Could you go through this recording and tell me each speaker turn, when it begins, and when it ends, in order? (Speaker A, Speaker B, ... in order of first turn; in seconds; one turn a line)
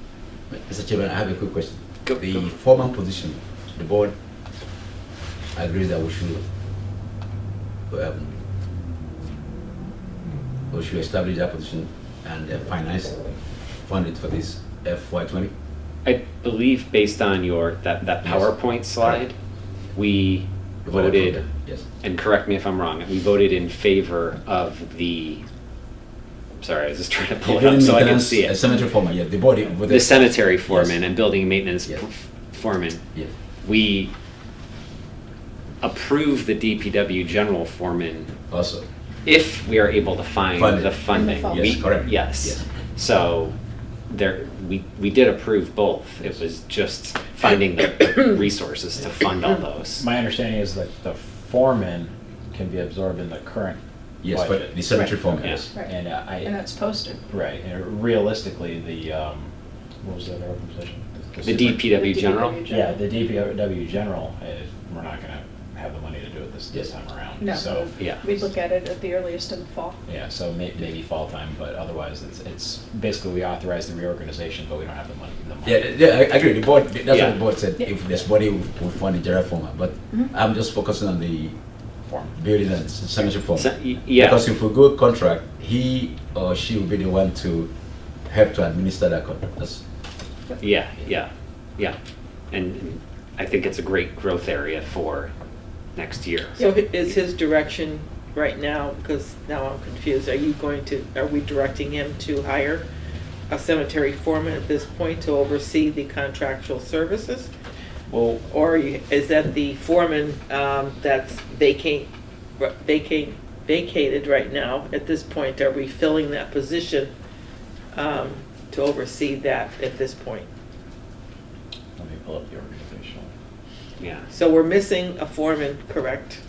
Speaker A: 0.5-4.1
Speaker B: 2.0-2.5
Speaker A: 5.5-6.4
Speaker A: 7.9-8.3
Speaker A: 10.7-13.3
Speaker A: 13.8-15.5
Speaker B: 16.0-19.4
Speaker A: 18.2-19.2
Speaker B: 19.9-21.4
Speaker A: 20.9-21.9
Speaker B: 22.0-25.4
Speaker B: 26.6-28.7
Speaker A: 27.4-31.0
Speaker B: 29.9-33.0
Speaker B: 33.6-34.1
Speaker B: 35.8-38.3
Speaker A: 38.5-38.9
Speaker B: 39.2-43.5
Speaker A: 40.5-42.6
Speaker C: 41.1-41.9
Speaker B: 44.1-50.1
Speaker D: 50.0-56.6
Speaker A: 54.2-55.7
Speaker C: 55.7-57.2
Speaker D: 57.3-61.9
Speaker B: 61.4-62.6
Speaker C: 61.9-63.2
Speaker D: 62.7-68.4
Speaker C: 67.4-70.0
Speaker B: 68.0-68.3
Speaker D: 70.1-75.9
Speaker A: 75.7-81.6
Speaker B: 77.1-77.4
Speaker D: 82.1-82.4
Speaker A: 82.4-87.7
Speaker B: 83.5-84.4
Speaker A: 88.3-89.8
Speaker B: 90.6-92.0
Speaker B: 92.5-95.3
Speaker B: 96.0-96.6
Speaker E: 96.6-102.9
Speaker E: 103.5-107.5
Speaker E: 108.4-112.1
Speaker E: 112.6-117.1
Speaker E: 117.9-120.5
Speaker D: 122.0-123.3
Speaker B: 124.0-124.3
Speaker E: 124.3-126.4